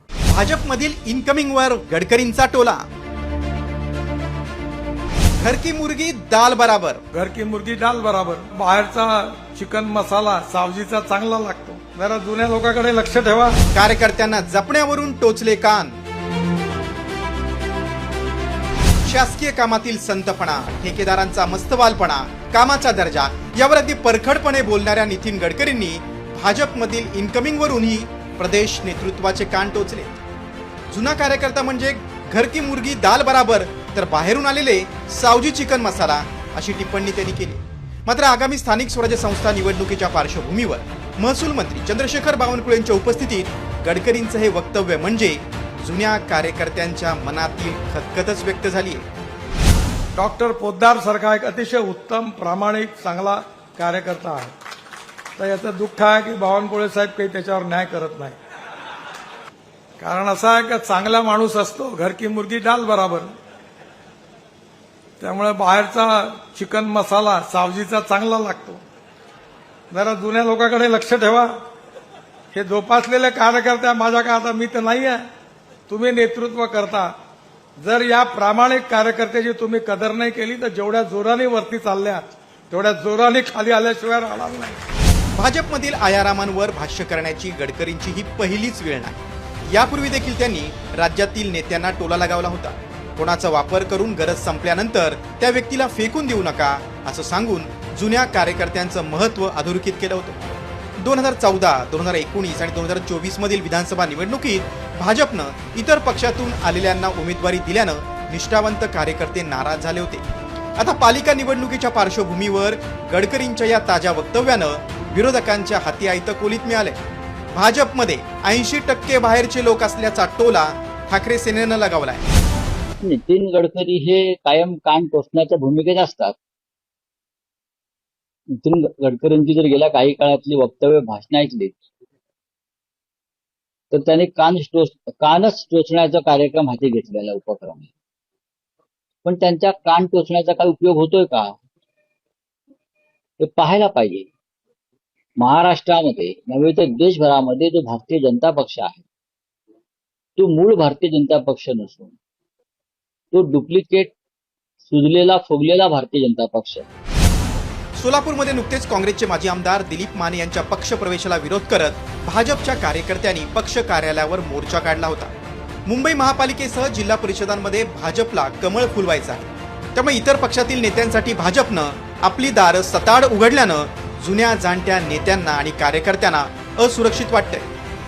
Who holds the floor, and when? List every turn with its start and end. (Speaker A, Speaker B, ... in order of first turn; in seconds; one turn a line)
Speaker A: 0.3-2.8
Speaker A: 5.4-7.0
Speaker B: 7.1-13.6
Speaker A: 13.7-16.0
Speaker A: 19.1-30.2
Speaker A: 30.9-49.1
Speaker B: 50.1-54.5
Speaker B: 55.4-58.4
Speaker B: 60.0-63.3
Speaker B: 65.2-68.8
Speaker B: 69.9-71.6
Speaker B: 72.5-75.2
Speaker B: 75.9-77.1
Speaker B: 77.8-84.8
Speaker A: 85.3-89.2
Speaker A: 89.7-100.5
Speaker A: 101.0-110.2
Speaker A: 110.8-117.0
Speaker A: 117.5-122.2
Speaker C: 123.0-126.3
Speaker C: 128.6-131.8
Speaker C: 133.9-137.9
Speaker C: 139.2-141.6
Speaker C: 143.4-144.3
Speaker C: 145.4-149.0
Speaker C: 150.4-152.2
Speaker C: 153.3-154.1
Speaker C: 154.8-156.8
Speaker A: 158.0-165.3
Speaker A: 165.8-177.7